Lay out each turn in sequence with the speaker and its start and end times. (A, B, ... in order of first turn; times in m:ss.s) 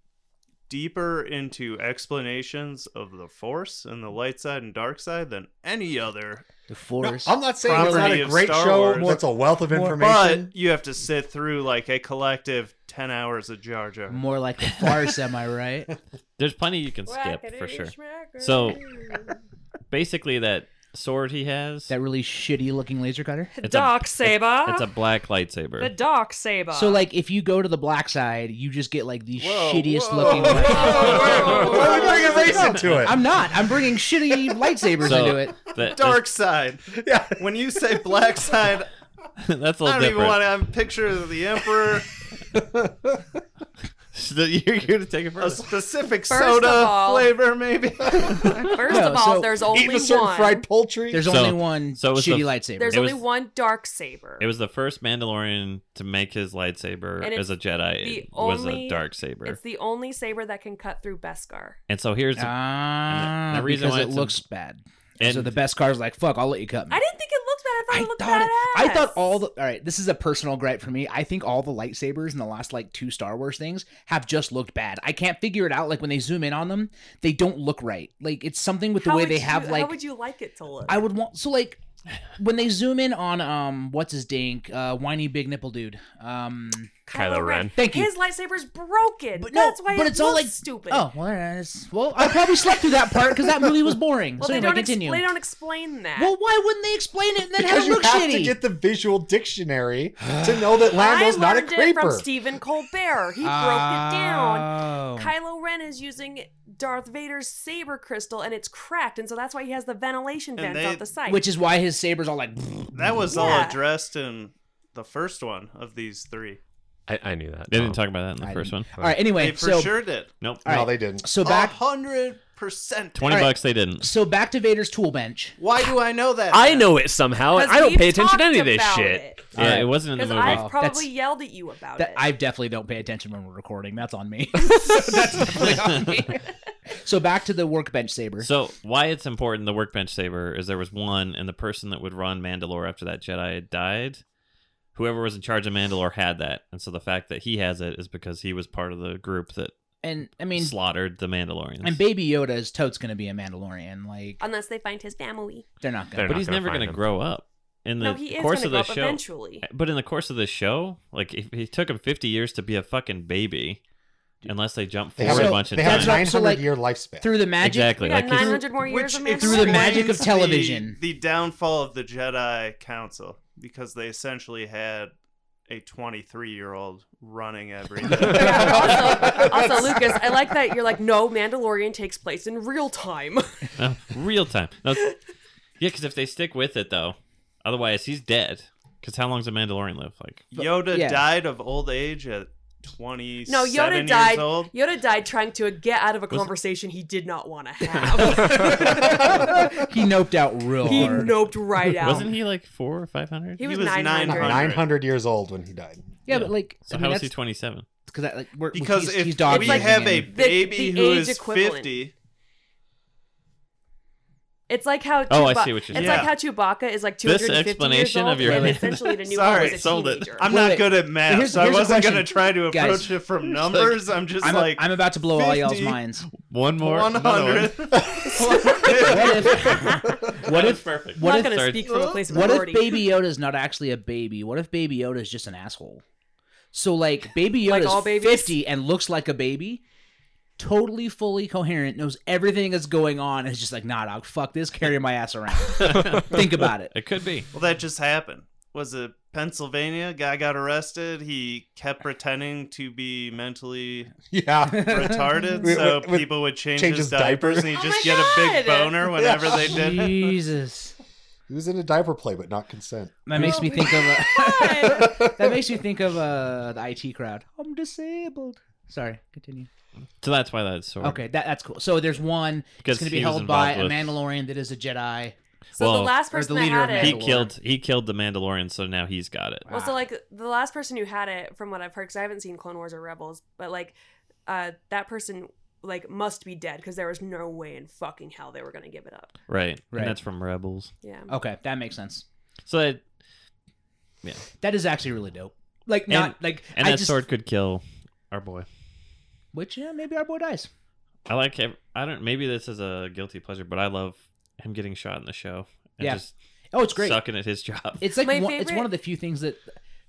0:00.7-0:06.4 A
0:06.7-0:08.4 B
0:07.0-0:10.5 C
0:07.6-0:09.1 A
0:08.9-0:10.0 B
0:09.9-0:14.2 A
0:14.1-0:15.9 B
0:16.4-0:18.8 D
0:17.1-0:19.3 E
0:19.9-0:21.9 D
0:21.9-0:23.5 B
0:23.5-0:24.8 E
0:23.6-0:25.9 D
0:25.8-0:27.0 E
0:26.7-0:35.6 B
0:29.4-0:32.7 A
0:30.2-0:33.6 C
0:30.6-0:32.4 E
0:34.3-0:34.6 C
0:35.0-0:36.2 D
0:35.9-0:38.9 A
0:36.9-0:38.0 C
0:39.4-0:40.5 D
0:39.8-0:42.1 A
0:42.5-0:43.4 C
0:44.1-0:45.6 D
0:45.4-0:48.7 A
0:46.3-0:47.3 E
0:48.2-0:48.5 C
0:48.6-0:50.6 E
0:48.9-0:49.5 B
0:49.7-0:51.3 C
0:51.1-0:53.0 B
0:51.2-0:53.2 D
0:52.8-0:54.4 E
0:54.4-0:59.6 D
0:57.2-0:57.4 E
0:58.0-1:01.8 E
1:01.9-1:04.4 D
1:02.4-1:07.0 B
1:05.2-1:05.5 D
1:06.9-1:09.2 E
1:07.9-1:19.9 B
1:19.0-1:21.0 E
1:20.9-1:21.8 B
1:22.4-1:27.0 B
1:27.1-1:31.1 E
1:27.1-1:27.7 F
1:27.8-1:28.1 B
1:29.4-1:35.3 B
1:34.4-1:36.3 E
1:36.2-1:38.6 B
1:37.6-1:42.3 C
1:40.2-1:40.5 B
1:40.9-1:51.4 E
1:43.4-1:45.3 B
1:50.6-1:51.0 A
1:51.3-1:52.9 B
1:52.9-1:56.6 A
1:53.3-1:53.8 E
1:57.1-1:58.0 F
1:57.7-1:58.9 D
1:58.4-2:00.0 B
1:59.0-1:59.2 F
1:59.3-2:00.3 A
2:00.6-2:01.8 B
2:00.6-2:01.3 C
2:01.4-2:03.4 A
2:03.2-2:04.1 D
2:03.3-2:05.6 B
2:05.6-2:06.9 A
2:06.5-2:09.3 F
2:07.5-2:09.5 E
2:09.5-2:10.7 D
2:09.5-2:11.1 B
2:10.1-2:12.3 E
2:12.0-2:18.5 B
2:15.6-2:16.1 D
2:18.4-2:24.2 D
2:24.9-2:29.7 D
2:30.0-2:30.7 B
2:30.5-2:32.0 D
2:31.8-2:34.4 B
2:34.4-2:35.6 E
2:35.8-2:36.4 B
2:36.2-2:37.0 F
2:36.2-2:43.8 D
2:38.0-2:39.6 E
2:44.4-2:46.2 D
2:45.2-2:47.4 C
2:45.2-2:48.6 B
2:47.6-2:48.8 D
2:48.0-2:50.2 E
2:48.8-2:55.1 A
2:49.3-2:51.0 B
2:55.7-2:59.4 A
2:58.3-3:03.7 E
2:58.3-2:58.7 B
2:58.5-3:00.3 C
3:03.8-3:05.1 D
3:05.8-3:10.5 D
3:10.5-3:14.7 A
3:10.5-3:11.3 B
3:13.5-3:19.8 E
3:18.0-3:18.4 D
3:18.7-3:21.4 B
3:18.8-3:19.7 C
3:20.8-3:22.3 E
3:22.0-3:23.6 D
3:23.6-3:24.7 E
3:23.6-3:24.8 A
3:24.2-3:26.2 C
3:26.3-3:27.3 B
3:26.3-3:27.8 D
3:28.0-3:30.3 B
3:28.7-3:32.1 A
3:29.5-3:32.0 E
3:34.7-3:40.6 E
3:35.3-3:36.3 D
3:35.9-3:36.3 A
3:37.2-3:40.4 D
3:38.4-3:38.8 B
3:39.2-3:46.0 A
3:40.4-3:43.2 B
3:43.5-3:43.9 D
3:44.4-3:46.3 B
3:46.4-3:47.8 D
3:46.8-3:49.7 A
3:48.0-3:48.4 C
3:48.3-3:51.7 B
3:48.8-3:50.3 E
3:50.3-3:52.0 D
3:51.2-3:53.0 E
3:51.9-3:52.2 A
3:52.3-3:56.0 B
3:56.7-3:59.8 B
3:57.6-3:58.5 E
4:00.6-4:06.9 B
4:05.8-4:07.5 D
4:07.5-4:14.1 A
4:14.3-4:17.9 C
4:14.7-4:15.4 B
4:14.8-4:20.4 A
4:17.8-4:19.2 E
4:19.2-4:19.7 C
4:19.5-4:20.9 B
4:21.5-4:25.6 C
4:23.2-4:29.7 B
4:23.3-4:25.3 E
4:30.2-4:31.2 D
4:31.0-4:35.3 B
4:32.8-4:34.1 D
4:35.8-4:36.2 D
4:35.8-4:37.2 E
4:36.3-4:37.5 B
4:36.9-4:39.7 D
4:39.6-4:40.0 B
4:39.7-4:43.9 E
4:44.4-4:49.3 E
4:49.5-4:50.9 D
4:49.9-4:50.2 B
4:51.0-4:51.3 E
4:51.3-4:52.2 B
4:52.7-4:53.0 D
4:54.6-4:57.2 B
4:56.1-4:58.7 D
4:59.5-5:00.7 B
5:01.3-5:06.3 D
5:06.0-5:07.2 B
5:06.9-5:08.0 D
5:08.0-5:09.8 B
5:08.2-5:08.9 E